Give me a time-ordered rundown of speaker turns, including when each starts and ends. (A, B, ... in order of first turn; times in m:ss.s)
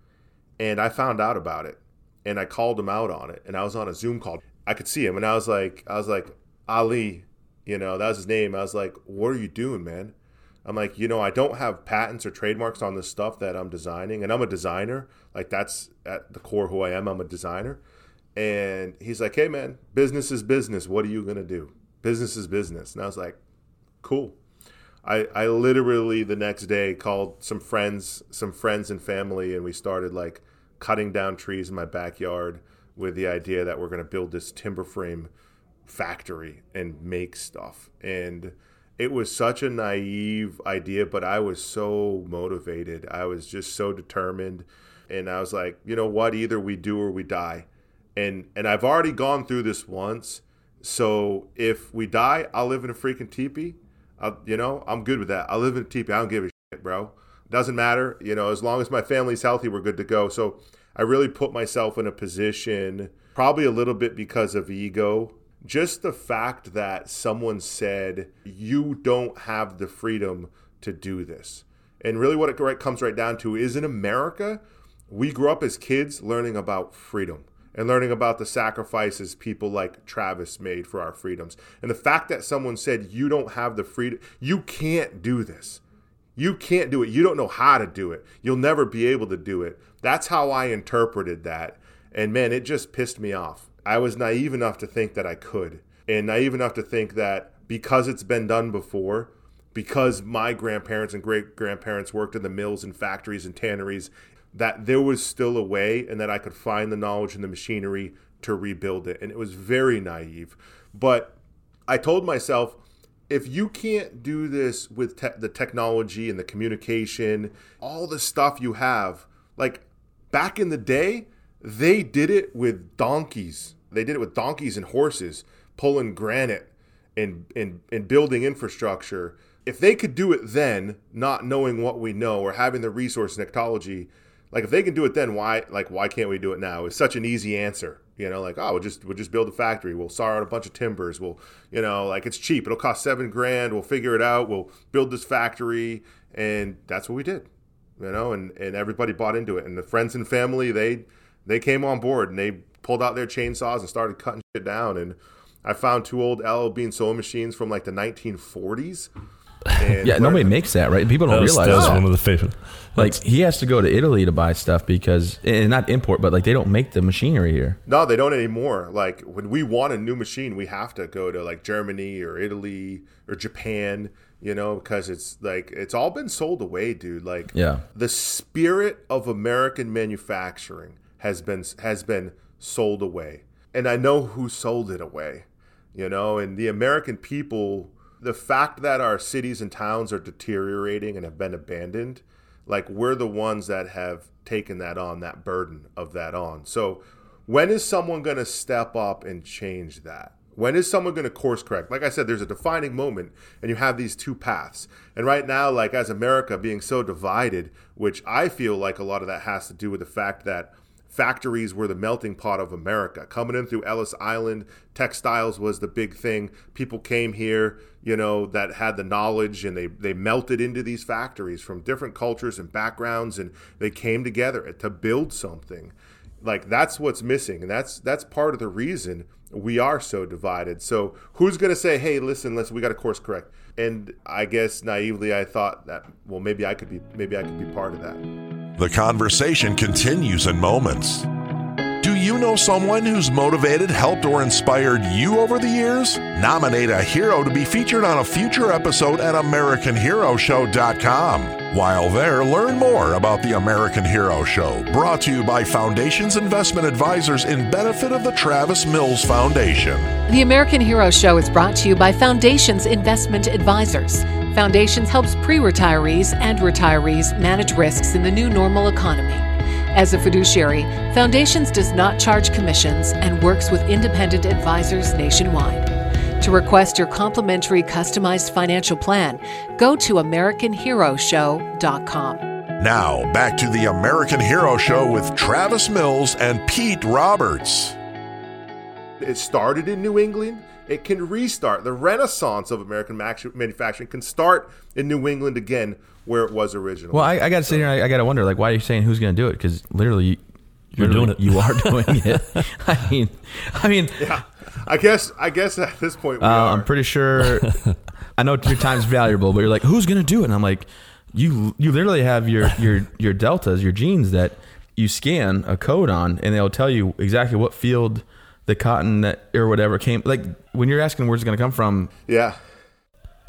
0:00.6-0:10.1 A
0:10.6-0:17.8 A
0:18.3-0:23.4 A
0:24.0-0:24.4 A
0:25.0-0:35.3 A
0:35.8-1:25.8 A
1:26.4-1:51.4 A
1:51.9-2:27.5 A
2:28.0-2:39.1 A
2:39.7-2:40.6 A
2:40.0-2:42.0 B
2:41.3-2:43.1 C
2:41.6-2:42.0 A
2:43.0-2:47.8 B
2:47.8-3:58.2 A
2:57.5-2:57.8 B
3:58.8-4:01.3 D
4:02.0-4:20.1 D
4:20.3-4:35.9 E
4:36.4-4:42.4 E
4:42.8-4:48.0 D
4:49.2-4:57.8 A
4:57.1-5:00.4 B
5:00.9-5:04.3 B
5:01.0-5:02.4 C
5:04.2-5:06.9 A
5:06.4-5:07.8 B
5:08.4-5:22.1 B
5:22.3-5:22.6 A